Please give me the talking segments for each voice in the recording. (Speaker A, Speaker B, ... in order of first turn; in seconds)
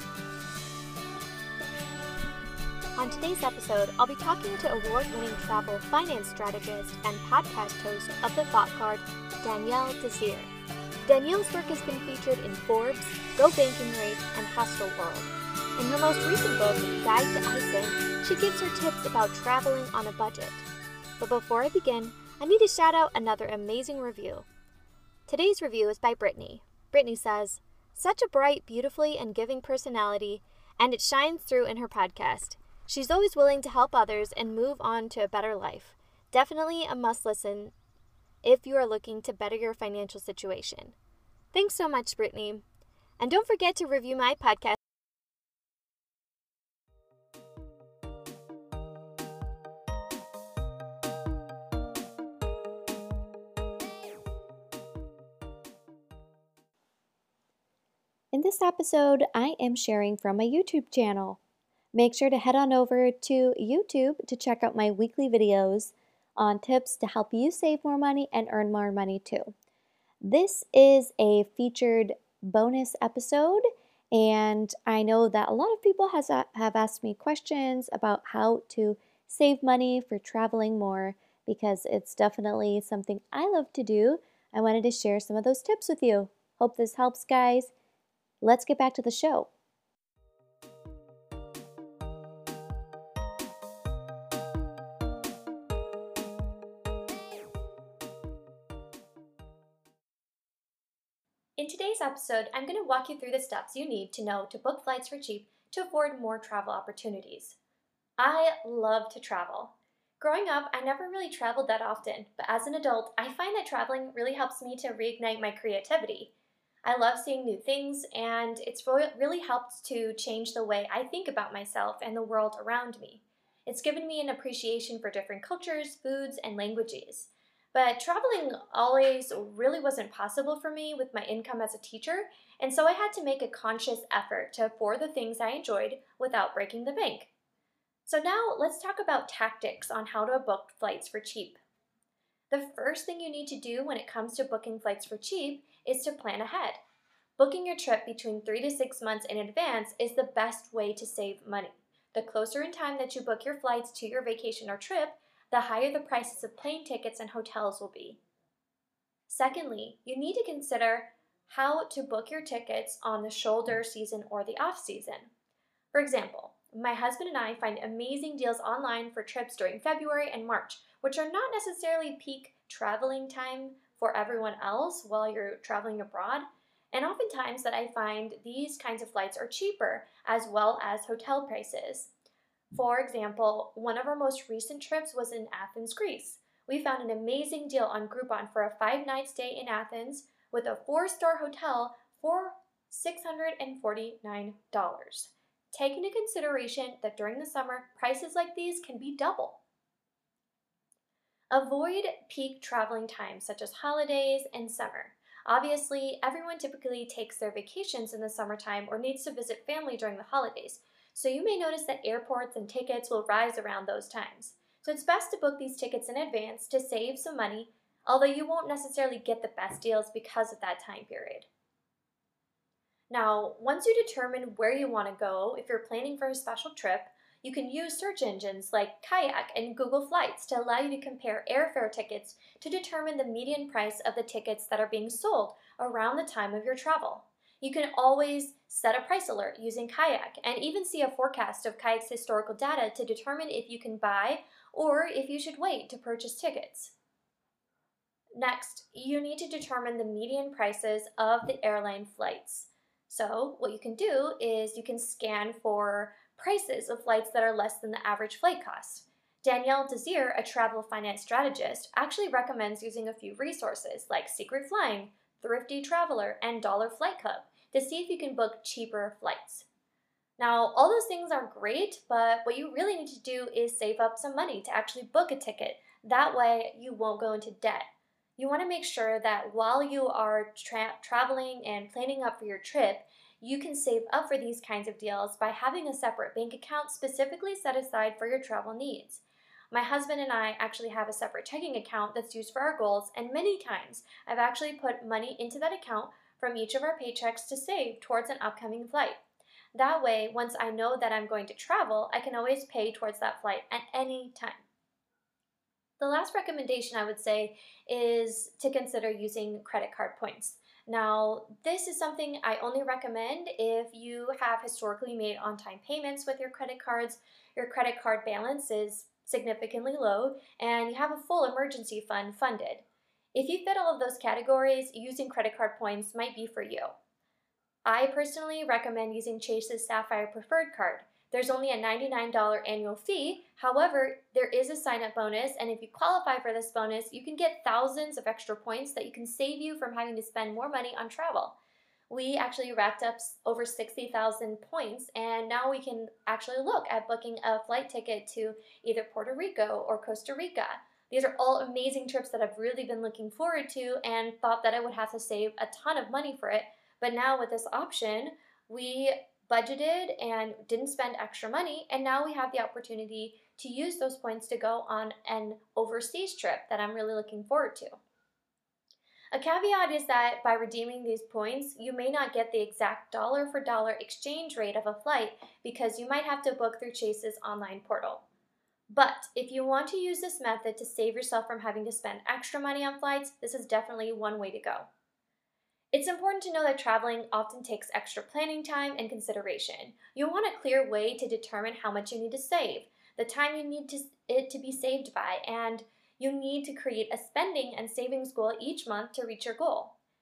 Speaker A: 3.0-10.5, 11.0-20.7, 21.2-24.5, 25.3-37.8, 38.4-41.0, 41.5-42.6, 43.2-44.8, 58.3-61.4, 61.9-69.5, 70.2-87.7, 88.4-89.5, 101.6-107.6, 108.2-116.3, 116.8-137.3, 138.1-141.6, 142.5-146.8, 147.4-158.2, 159.3-165.3, 165.9-182.1, 182.7-199.6, 201.5-221.5, 223.1-246.9, 248.3-269.7, 270.4-299.2, 299.7-304.6, 306.0-326.9, 327.9-341.6, 342.1-368.0, 369.3-378.2, 378.9-384.9, 385.9-399.9